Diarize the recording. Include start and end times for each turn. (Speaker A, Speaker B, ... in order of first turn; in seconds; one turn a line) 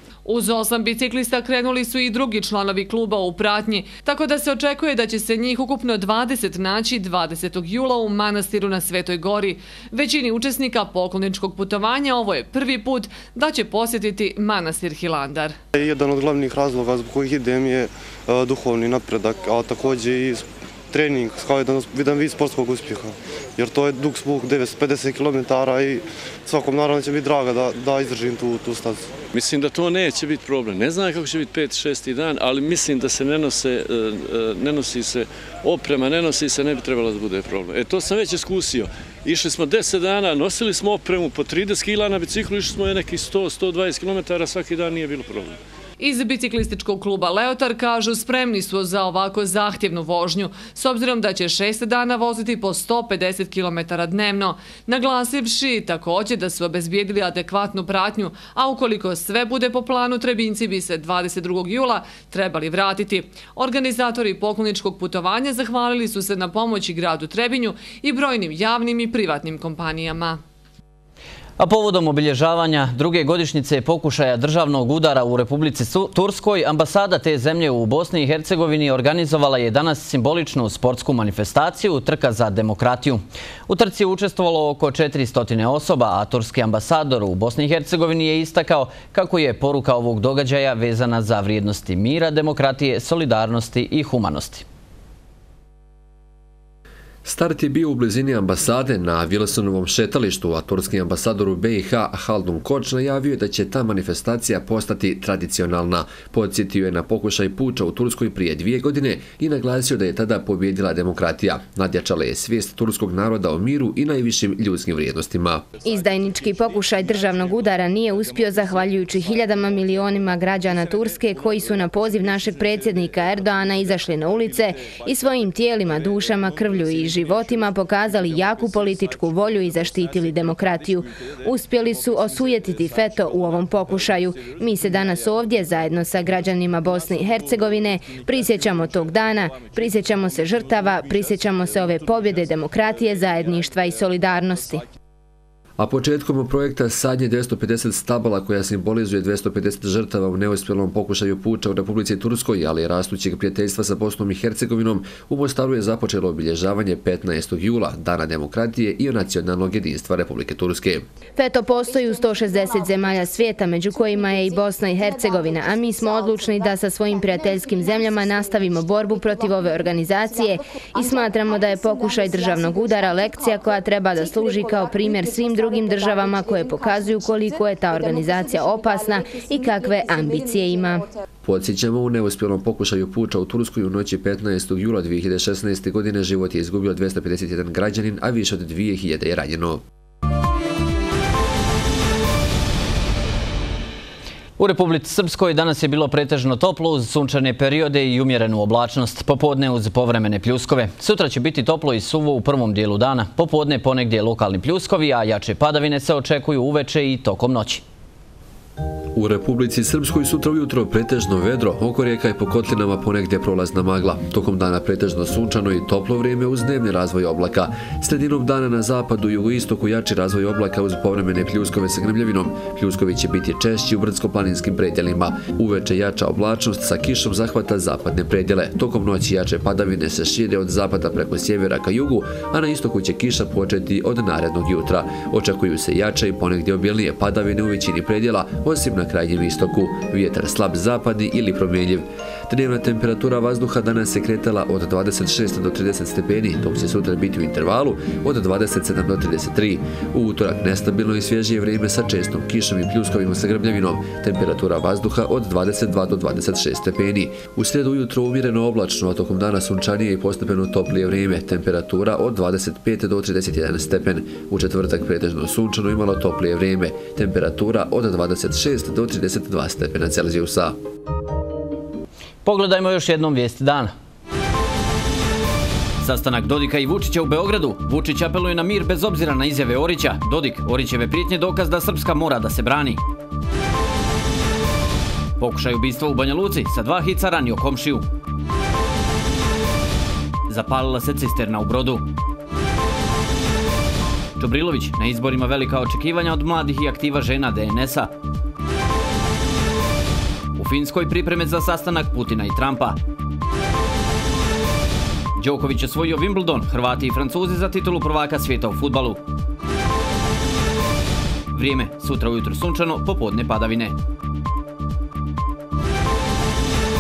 Speaker A: 0.2-15.6
Speaker B: 15.8-29.1
Speaker C: 29.3-45.6
Speaker A: 46.0-70.4
Speaker D: 71.6-94.7
Speaker E: 97.2-115.6
Speaker F: 115.8-144.8
Speaker E: 145.8-161.1
Speaker F: 161.4-181.0
Speaker E: 181.4-189.8
Speaker D: 194.6-207.8
Speaker E: 209.1-270.8
Speaker D: 272.4-273.9
Speaker D: 276.0-283.0
Speaker D: 285.4-288.1
Speaker D: 290.5-292.1
Speaker D: 294.4-298.1
Speaker D: 300.6-303.0
Speaker D: 305.4-309.2
Speaker D: 311.5-313.9